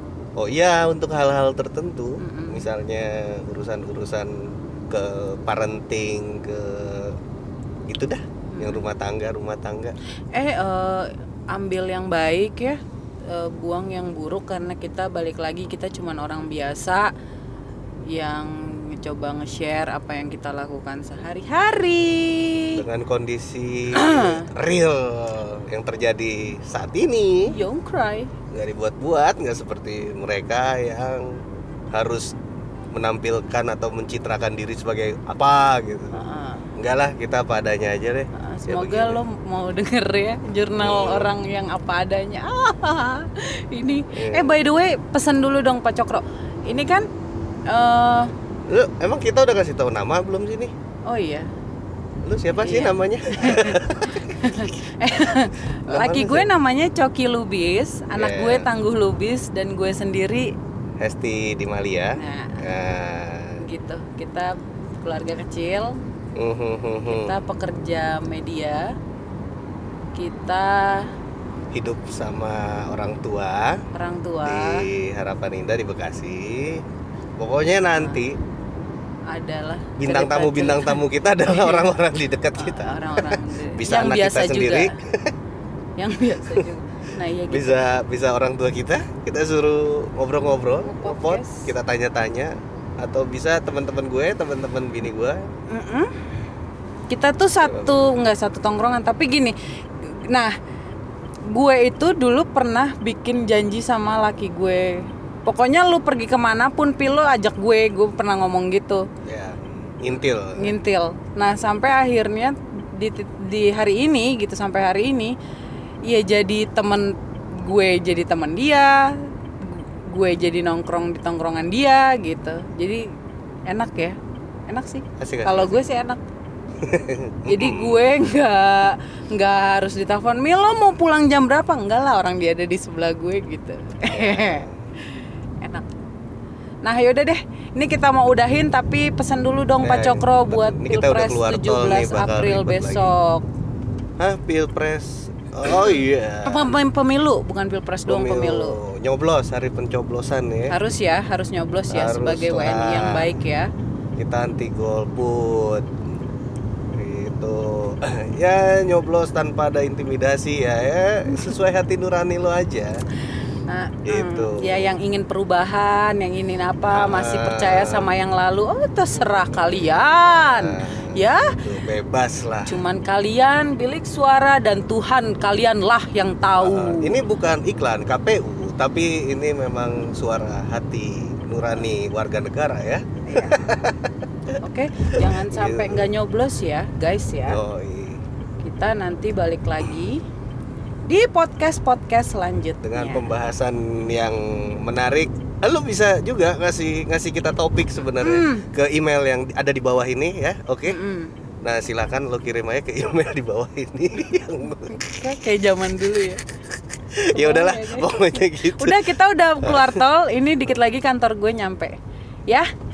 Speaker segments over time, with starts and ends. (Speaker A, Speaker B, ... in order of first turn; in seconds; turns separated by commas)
Speaker A: 0.4-7.2, Speaker B: 2.2-2.7, Speaker A: 7.9-9.9, Speaker B: 8.5-8.8, Speaker B: 10.3-17.1, Speaker B: 18.1-22.8, Speaker A: 22.8-27.5, Speaker B: 23.9-24.5, Speaker B: 27.5-28.3, Speaker A: 28.5-31.4, Speaker A: 31.9-32.3, Speaker A: 32.9-36.2, Speaker B: 36.1-36.7, Speaker A: 36.8-39.2, Speaker B: 38.3-47.1, Speaker A: 40.8-41.3, Speaker A: 44.1-44.6, Speaker B: 47.7-48.3, Speaker A: 48.7-50.7, Speaker B: 51.1-51.5, Speaker A: 52.2-54.7, Speaker B: 52.6-60.5, Speaker A: 55.9-56.5, Speaker A: 58.1-58.7, Speaker A: 61.0-63.6, Speaker B: 62.1-62.7, Speaker B: 63.6-66.0, Speaker A: 66.3-67.4, Speaker B: 67.1-68.9, Speaker B: 70.1-71.1, Speaker A: 71.7-73.8, Speaker B: 73.9-74.8, Speaker A: 74.4-76.8, Speaker A: 77.4-78.4, Speaker B: 77.9-78.2, Speaker B: 79.3-81.9, Speaker A: 80.0-85.3, Speaker B: 82.5-84.9, Speaker B: 86.0-87.8, Speaker A: 87.5-95.5, Speaker B: 90.8-91.7, Speaker B: 95.7-96.1, Speaker B: 97.1-100.5, Speaker A: 97.6-98.0, Speaker B: 101.5-109.0, Speaker A: 109.2-110.8, Speaker B: 110.6-115.3, Speaker B: 116.0-123.0, Speaker B: 123.7-124.2, Speaker B: 124.7-126.2, Speaker A: 125.2-125.8, Speaker A: 126.8-128.1, Speaker B: 127.5-135.9, Speaker A: 134.1-134.8, Speaker B: 136.8-143.4, Speaker A: 139.8-143.1, Speaker A: 144.2-146.7, Speaker B: 145.7-148.8, Speaker A: 148.1-150.8, Speaker B: 150.7-153.7, Speaker A: 151.9-153.3, Speaker A: 154.2-155.9, Speaker A: 156.9-163.0, Speaker B: 163.7-171.6, Speaker A: 164.1-164.9, Speaker A: 166.9-168.1, Speaker A: 169.1-172.8, Speaker B: 172.7-177.2, Speaker A: 176.6-184.1, Speaker B: 183.2-183.6, Speaker B: 184.6-187.6, Speaker A: 185.1-186.1, Speaker A: 187.4-188.2, Speaker B: 188.6-190.2, Speaker B: 191.1-193.3, Speaker A: 192.8-201.0, Speaker B: 198.2-198.7, Speaker B: 200.9-201.3, Speaker A: 201.6-205.0, Speaker B: 204.8-206.4, Speaker A: 207.1-209.0, Speaker B: 207.3-211.9, Speaker A: 209.6-210.0